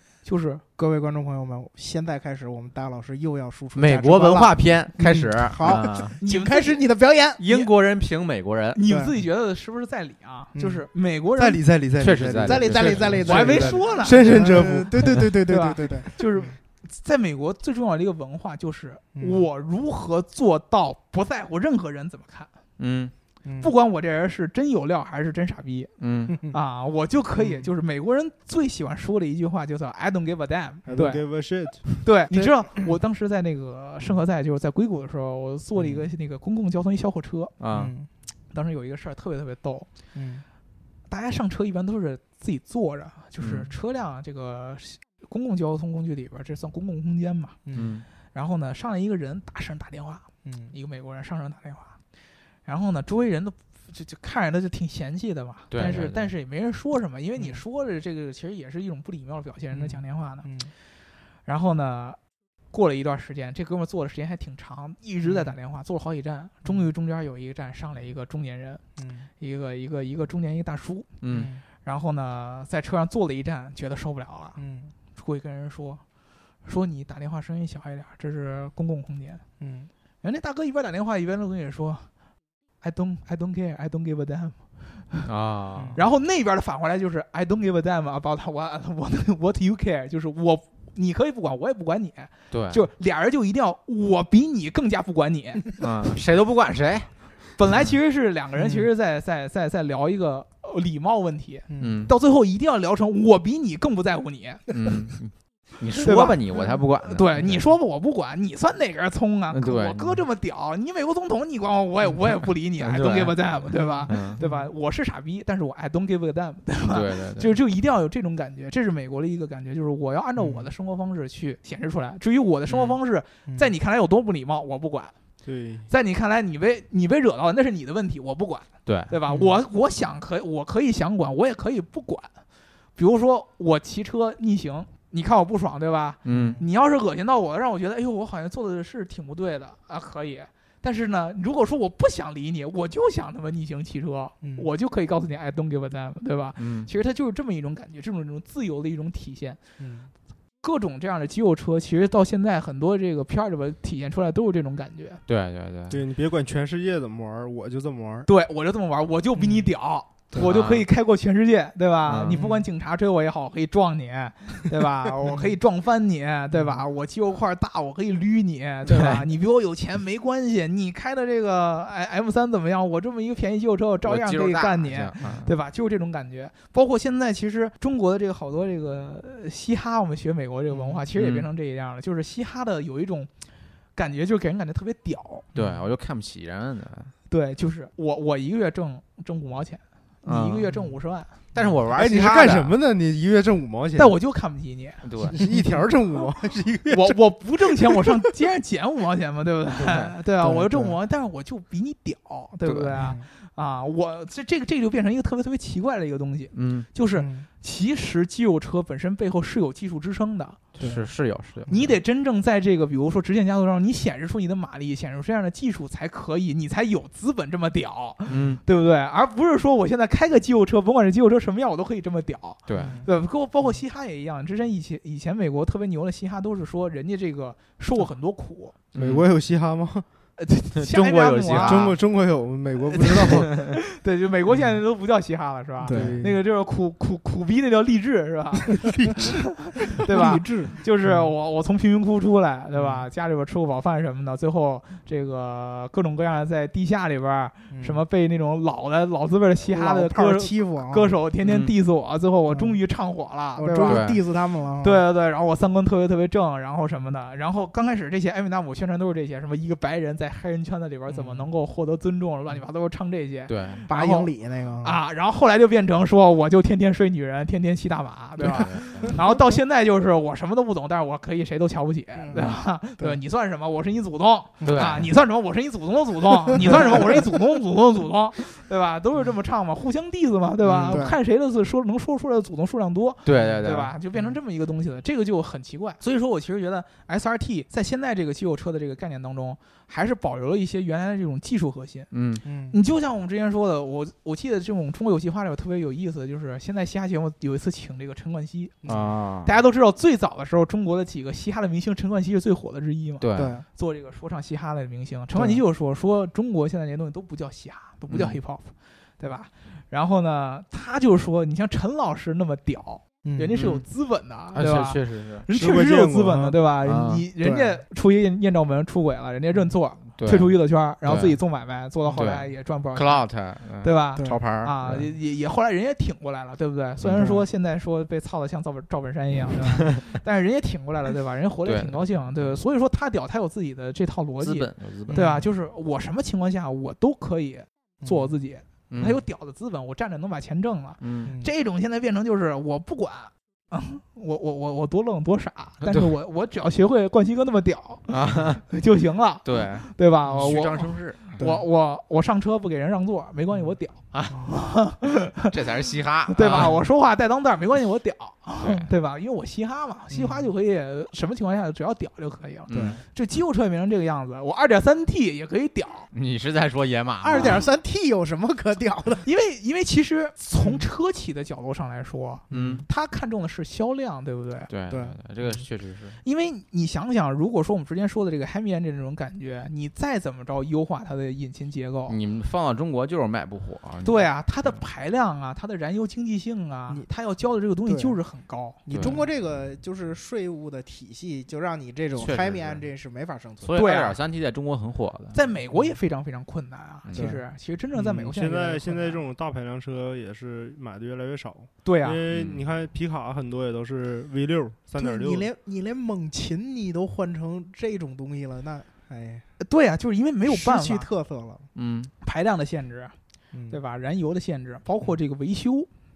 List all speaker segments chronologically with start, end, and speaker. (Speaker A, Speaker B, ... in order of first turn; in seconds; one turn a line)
Speaker A: 0.2-0.6
Speaker B: 0.8-7.4
Speaker C: 3.8-6.2
Speaker A: 5.7-6.8
Speaker C: 7.4-8.8
Speaker A: 7.5-7.7
Speaker A: 8.7-11.6
Speaker B: 8.8-9.1
Speaker B: 10.6-10.8
Speaker D: 11.4-15.3
Speaker C: 12.0-13.9
Speaker B: 12.4-16.5
Speaker A: 13.2-22.5
Speaker B: 19.2-19.5
Speaker C: 22.8-23.1
Speaker B: 23.4-23.7
Speaker A: 23.6-31.2
Speaker C: 26.0-26.4
Speaker B: 26.3-26.6
Speaker B: 27.4-27.7
Speaker D: 30.9-32.0
Speaker A: 31.8-37.5
Speaker C: 37.6-37.9
Speaker B: 37.7-38.1
Speaker A: 38.5-39.9
Speaker B: 40.1-40.5
Speaker A: 41.1-47.6
Speaker C: 43.4-43.7
Speaker B: 47.7-47.9
Speaker C: 47.7-48.1
Speaker A: 48.3-52.0
Speaker B: 50.4-50.7
Speaker A: 52.6-60.5
Speaker C: 55.7-56.3
Speaker B: 59.7-60.7
Speaker A: 61.5-62.2
Speaker A: 62.7-68.8
Speaker B: 65.2-65.5
Speaker B: 69.0-69.3
Speaker A: 69.4-71.2
Speaker C: 71.2-71.5
Speaker B: 71.3-71.6
Speaker A: 71.8-74.6
Speaker B: 74.6-74.9
Speaker A: 75.1-76.0
Speaker A: 76.7-79.4
Speaker B: 79.6-79.9
Speaker A: 80.2-82.1
Speaker A: 82.8-85.2
Speaker C: 85.2-86.0
Speaker B: 85.8-86.0
Speaker A: 86.0-95.8
Speaker C: 92.5-92.8
Speaker C: 95.8-97.1
Speaker A: 97.6-104.7
Speaker B: 98.6-98.9
Speaker B: 101.7-102.0
Speaker C: 101.8-102.1
Speaker C: 104.7-107.7
Speaker A: 106.0-125.1
Speaker C: 109.5-110.2
Speaker C: 112.8-114.4
Speaker B: 114.4-114.7
Speaker C: 116.9-117.5
Speaker B: 120.4-120.7
Speaker C: 122.7-123.0
Speaker D: 125.4-125.9
Speaker A: 125.9-132.3
Speaker C: 128.9-129.1
Speaker B: 129.3-129.6
Speaker A: 133.0-149.6
Speaker C: 136.2-136.6
Speaker B: 136.3-136.7
Speaker B: 144.4-144.7
Speaker C: 146.6-146.9
Speaker B: 149.8-150.1
Speaker A: 150.6-155.2
Speaker C: 155.3-156.0
Speaker D: 155.9-158.3
Speaker A: 158.3-183.3
Speaker B: 159.4-159.7
Speaker C: 160.3-160.9
Speaker C: 162.1-162.4
Speaker B: 162.3-162.7
Speaker C: 168.9-169.2
Speaker C: 174.0-175.5
Speaker B: 180.7-181.0
Speaker C: 181.2-181.5
Speaker A: 183.9-185.5
Speaker C: 185.5-187.1
Speaker A: 187.3-191.4
Speaker C: 190.2-190.8
Speaker C: 191.5-192.8
Speaker D: 191.9-194.2
Speaker A: 194.0-195.0
Speaker C: 195.0-195.4
Speaker D: 195.2-197.2
Speaker A: 196.9-210.6
Speaker B: 200.4-201.0
Speaker C: 202.6-203.0
Speaker B: 203.0-203.3
Speaker C: 206.5-206.9
Speaker B: 207.2-207.5
Speaker C: 210.8-211.8
Speaker B: 210.8-211.1
Speaker A: 211.7-228.8
Speaker C: 218.3-218.6
Speaker C: 222.7-223.0
Speaker B: 222.8-223.1
Speaker C: 228.9-229.3
Speaker D: 228.9-230.1
Speaker A: 230.4-231.9
Speaker C: 230.8-232.0
Speaker D: 231.6-233.6
Speaker C: 233.0-233.7
Speaker A: 233.1-254.1
Speaker B: 235.8-236.2
Speaker D: 235.9-236.4
Speaker B: 240.1-241.2
Speaker B: 242.8-243.1
Speaker B: 247.7-248.0
Speaker B: 249.7-251.2
Speaker C: 251.4-251.7
Speaker B: 252.5-252.8
Speaker B: 253.6-255.0
Speaker C: 253.8-254.2
Speaker A: 254.8-264.3
Speaker B: 261.1-261.4
Speaker C: 263.5-263.9
Speaker B: 263.9-265.0
Speaker A: 264.8-292.1
Speaker C: 268.4-269.1
Speaker B: 272.2-273.2
Speaker C: 274.6-275.1
Speaker B: 276.5-277.2
Speaker C: 280.6-281.1
Speaker B: 280.9-281.2
Speaker C: 283.2-283.9
Speaker C: 292.1-292.4
Speaker B: 292.4-292.8
Speaker A: 292.7-366.1
Speaker B: 298.8-299.1
Speaker C: 298.9-299.5
Speaker C: 303.2-303.6
Speaker B: 303.4-303.6
Speaker B: 305.4-305.6
Speaker C: 308.1-308.4
Speaker B: 313.2-313.6
Speaker C: 313.6-313.8
Speaker C: 314.5-315.5
Speaker D: 315.5-316.6
Speaker C: 316.8-317.3
Speaker B: 317.4-317.7
Speaker C: 320.2-321.4
Speaker C: 322.1-325.1
Speaker B: 324.2-324.4
Speaker C: 327.0-327.4
Speaker B: 327.2-327.4
Speaker C: 331.6-332.0
Speaker C: 334.4-335.3
Speaker B: 335.1-335.5
Speaker B: 338.0-338.3
Speaker C: 338.9-339.2
Speaker C: 341.0-341.3
Speaker B: 341.3-341.5
Speaker C: 345.8-346.1
Speaker C: 348.1-348.6
Speaker C: 349.4-351.5
Speaker C: 354.1-354.4
Speaker C: 355.4-356.8
Speaker C: 358.6-358.9
Speaker B: 360.1-360.5
Speaker C: 362.7-363.0
Speaker B: 362.7-363.0
Speaker C: 366.1-367.6
Speaker B: 367.2-369.3
Speaker A: 369.2-374.7
Speaker B: 370.6-370.9
Speaker B: 372.5-372.9
Speaker C: 372.5-372.9
Speaker C: 374.7-376.2
Speaker B: 374.9-375.1
Speaker A: 376.2-382.2
Speaker C: 382.1-384.8
Speaker A: 384.0-389.2
Speaker B: 387.9-388.2
Speaker B: 388.9-393.8
Speaker C: 388.9-389.2
Speaker C: 392.2-392.8
Speaker C: 393.6-395.4
Speaker A: 393.8-394.2
Speaker A: 395.3-399.2
Speaker B: 397.1-397.4
Speaker D: 398.1-405.5
Speaker A: 401.8-402.2
Speaker C: 402.3-402.6
Speaker B: 405.0-409.4
Speaker A: 409.6-411.1
Speaker B: 410.5-411.6
Speaker C: 411.8-412.1
Speaker A: 412.2-413.1
Speaker B: 413.5-413.8
Speaker A: 413.7-415.9